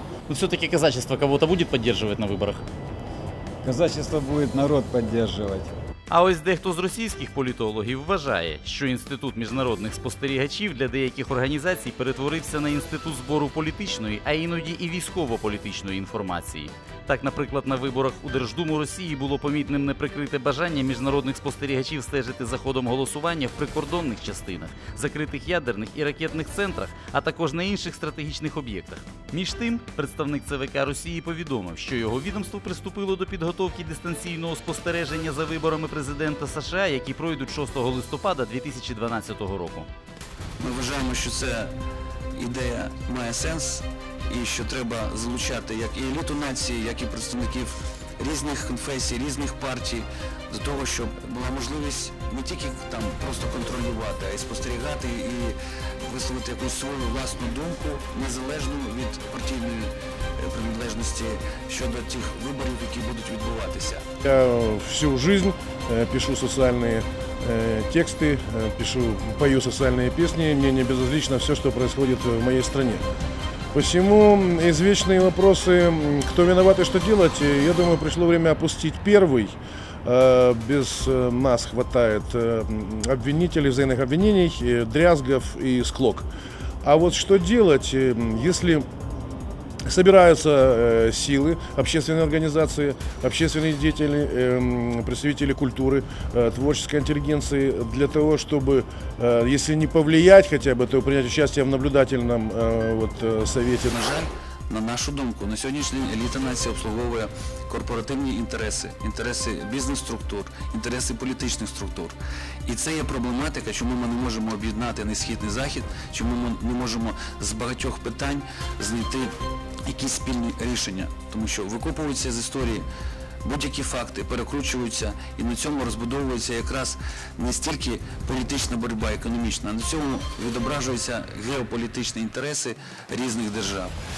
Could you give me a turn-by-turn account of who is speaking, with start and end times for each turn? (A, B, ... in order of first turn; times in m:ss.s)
0:00.3-0:02.6 A
0:03.6-0:05.7 B
0:06.1-0:39.9 A
0:40.6-0:41.7 C
0:42.3-0:43.6 C
0:44.3-1:04.0 C
1:04.2-1:13.0 D
1:13.7-1:26.3 D
1:26.8-1:28.8 D
1:29.8-1:44.0 D
1:44.1-1:52.1 C
1:52.6-1:59.3 C
1:59.9-2:02.8 C
2:03.4-2:13.9 C